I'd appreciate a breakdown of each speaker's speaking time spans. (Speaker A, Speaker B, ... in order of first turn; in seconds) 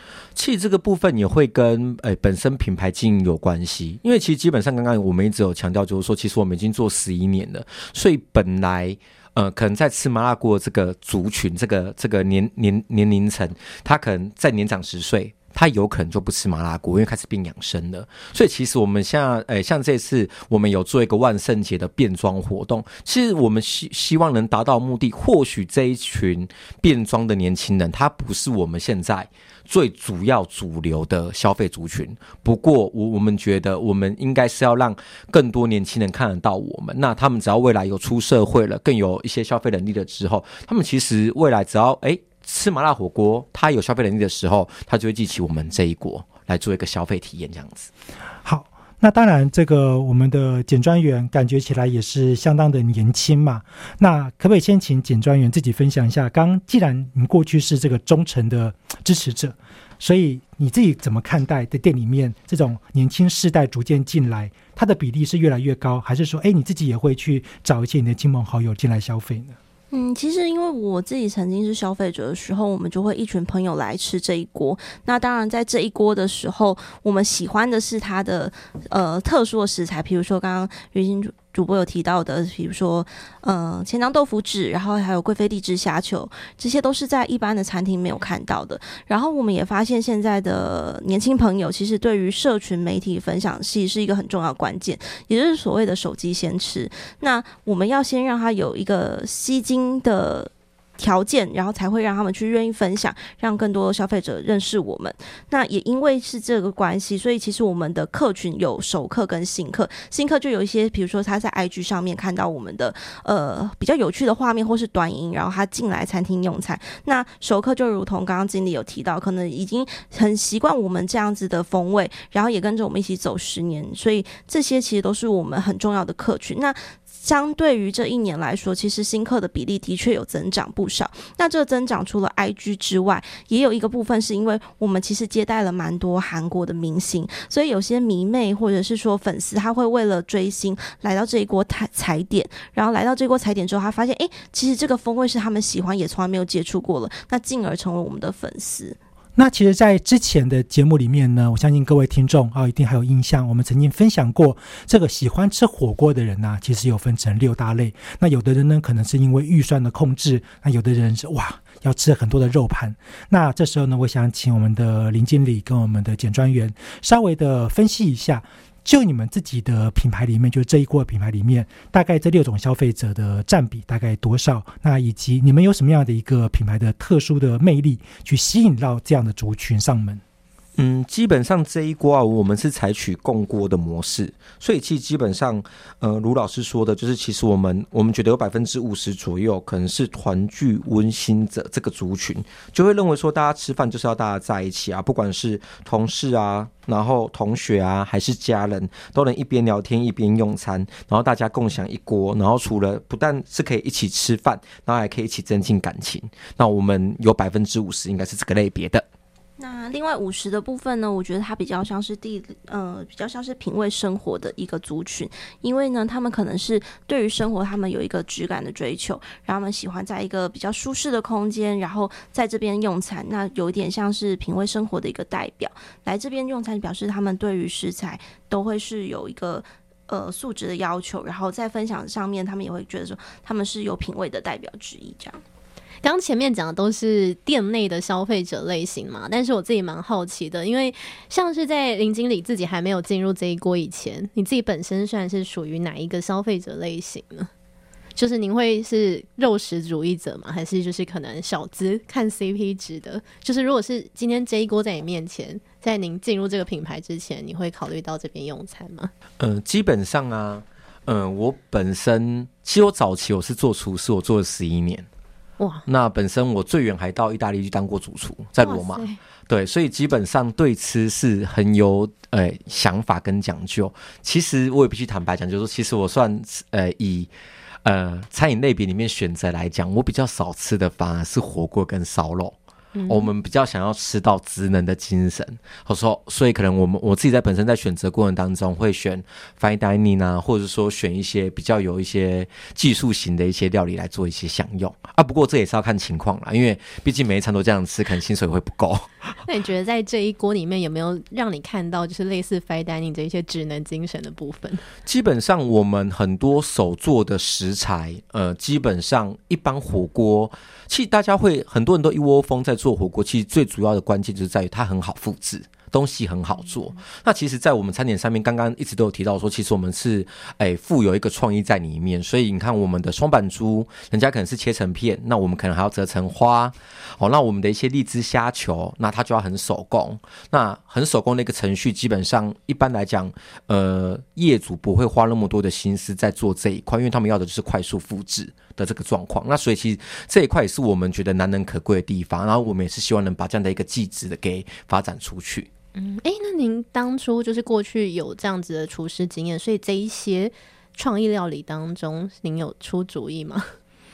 Speaker A: 0.4-47.9, 180.8-209.0, 259.4-265.1, 265.9-277.3, 277.8-282.6, 283.1-299.1, 305.1-345.7
Speaker B: 48.4-69.6, 149.4-180.2
Speaker C: 69.9-149.0, 209.6-235.4
Speaker D: 236.0-247.5, 248.2-259.1, 265.6-265.9, 268.6-269.2, 282.9-283.3, 299.4-304.8, 345.9-353.7